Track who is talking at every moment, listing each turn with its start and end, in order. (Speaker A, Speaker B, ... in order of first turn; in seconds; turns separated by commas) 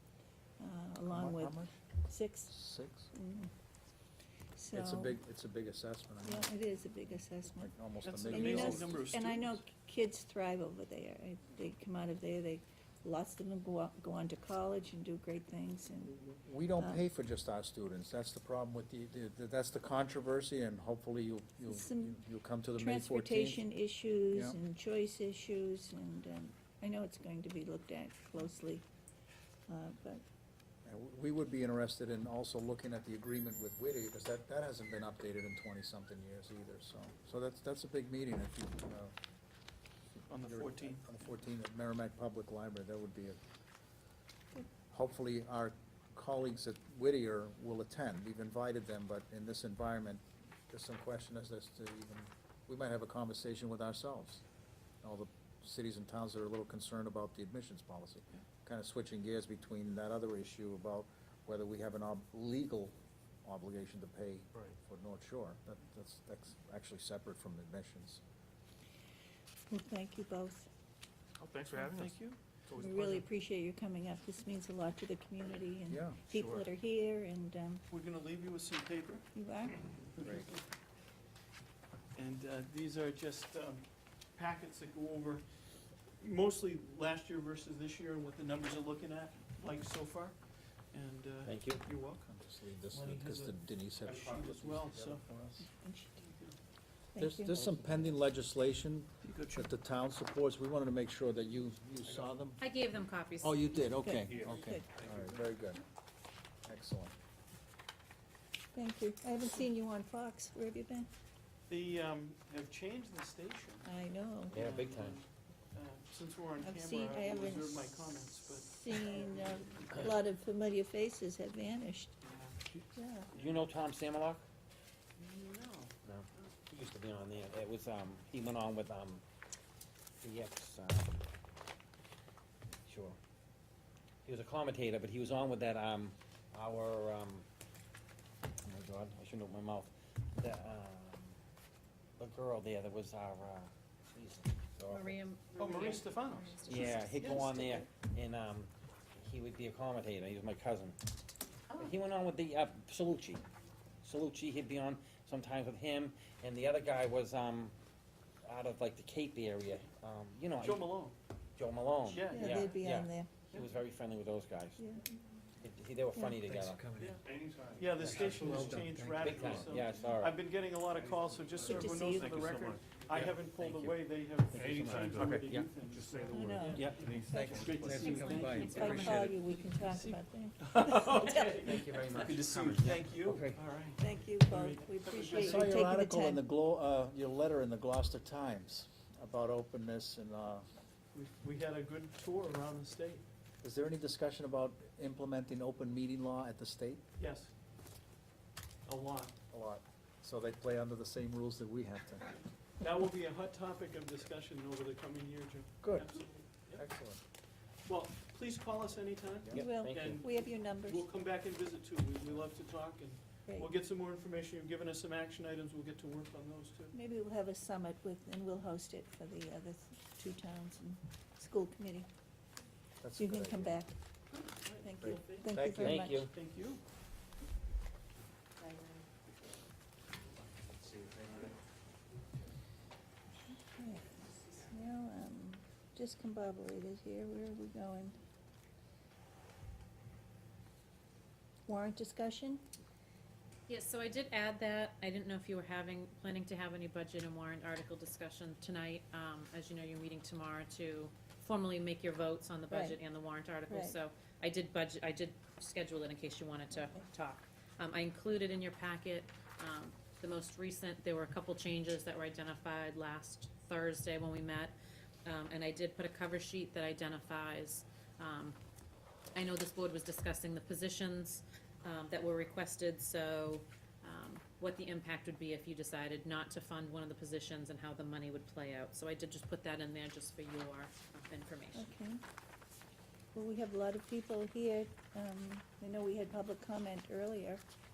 Speaker A: 0.6-2.5, Speaker B: 1.1-1.8, Speaker B: 2.5-3.1, Speaker A: 3.1-3.5, Speaker A: 4.5-5.2, Speaker B: 4.7-6.5, Speaker A: 6.2-7.7, Speaker B: 7.6-9.0, Speaker C: 8.0-9.7, Speaker A: 8.2-17.0, Speaker B: 16.3-23.6, Speaker A: 21.7-22.2, Speaker A: 22.8-28.9, Speaker B: 24.3-24.6, Speaker A: 29.7-30.2, Speaker B: 30.9-39.1, Speaker C: 40.3-41.0, Speaker B: 40.5-43.4, Speaker B: 44.9-54.4, Speaker B: 55.0-68.2, Speaker A: 69.7-70.7, Speaker D: 71.4-72.9, Speaker C: 71.7-72.6, Speaker A: 72.8-77.8, Speaker B: 75.9-76.2, Speaker C: 77.9-79.3, Speaker A: 79.3-79.9, Speaker B: 80.2-80.5, Speaker C: 82.1-85.6, Speaker C: 86.2-92.3, Speaker E: 91.4-91.8, Speaker B: 92.2-95.6, Speaker C: 92.9-95.3, Speaker A: 95.6-96.2, Speaker C: 96.2-96.5, Speaker A: 97.1-97.5, Speaker B: 97.2-102.6, Speaker E: 97.6-98.1, Speaker C: 99.2-99.7, Speaker F: 102.6-103.6, Speaker B: 103.4-105.8, Speaker A: 104.0-104.8, Speaker D: 104.3-105.3, Speaker B: 106.6-107.1, Speaker A: 108.7-111.1, Speaker C: 111.7-113.9, Speaker A: 113.8-114.6, Speaker C: 114.5-119.4, Speaker E: 114.5-115.2, Speaker A: 116.6-122.1, Speaker C: 122.2-122.6, Speaker A: 122.9-123.3, Speaker E: 123.3-124.4, Speaker C: 125.2-126.5, Speaker E: 126.0-129.2, Speaker E: 130.2-131.3, Speaker E: 132.8-133.2, Speaker E: 134.2-137.4, Speaker E: 138.6-141.3, Speaker E: 142.2-145.2, Speaker F: 144.9-146.9, Speaker C: 145.5-147.7, Speaker E: 146.6-151.0, Speaker E: 151.7-153.4, Speaker E: 154.0-157.7, Speaker E: 158.4-160.9, Speaker C: 160.6-161.2, Speaker E: 161.6-164.8, Speaker C: 162.0-162.8, Speaker A: 162.3-163.3, Speaker A: 164.8-165.1, Speaker E: 165.6-167.2, Speaker A: 166.1-166.4, Speaker D: 166.5-169.7, Speaker C: 167.8-185.8, Speaker E: 168.0-170.3, Speaker D: 170.9-173.3, Speaker A: 171.6-172.4, Speaker E: 173.5-178.4, Speaker D: 174.5-179.2, Speaker A: 176.3-181.5, Speaker B: 177.3-178.7, Speaker F: 178.0-179.4, Speaker E: 181.1-183.6, Speaker A: 184.0-186.4, Speaker B: 185.3-190.7, Speaker C: 191.1-193.2, Speaker B: 193.6-197.0, Speaker C: 197.2-197.5, Speaker C: 198.8-199.3, Speaker B: 199.5-202.4, Speaker C: 202.8-206.8, Speaker B: 205.8-206.1, Speaker B: 206.8-207.2, Speaker C: 207.8-216.9, Speaker E: 209.5-210.2, Speaker A: 209.5-211.0, Speaker A: 216.9-222.1, Speaker B: 223.0-223.8, Speaker A: 223.2-223.9, Speaker C: 224.3-225.5, Speaker A: 224.8-226.3, Speaker B: 225.0-226.1, Speaker E: 225.8-226.3, Speaker C: 226.3-226.8, Speaker F: 228.6-229.0, Speaker B: 231.0-231.4, Speaker A: 233.5-238.2, Speaker A: 241.7-242.6, Speaker F: 243.7-268.6, Speaker A: 252.7-253.0, Speaker A: 253.7-254.0, Speaker F: 269.3-281.9, Speaker A: 281.7-282.2, Speaker A: 283.3-287.6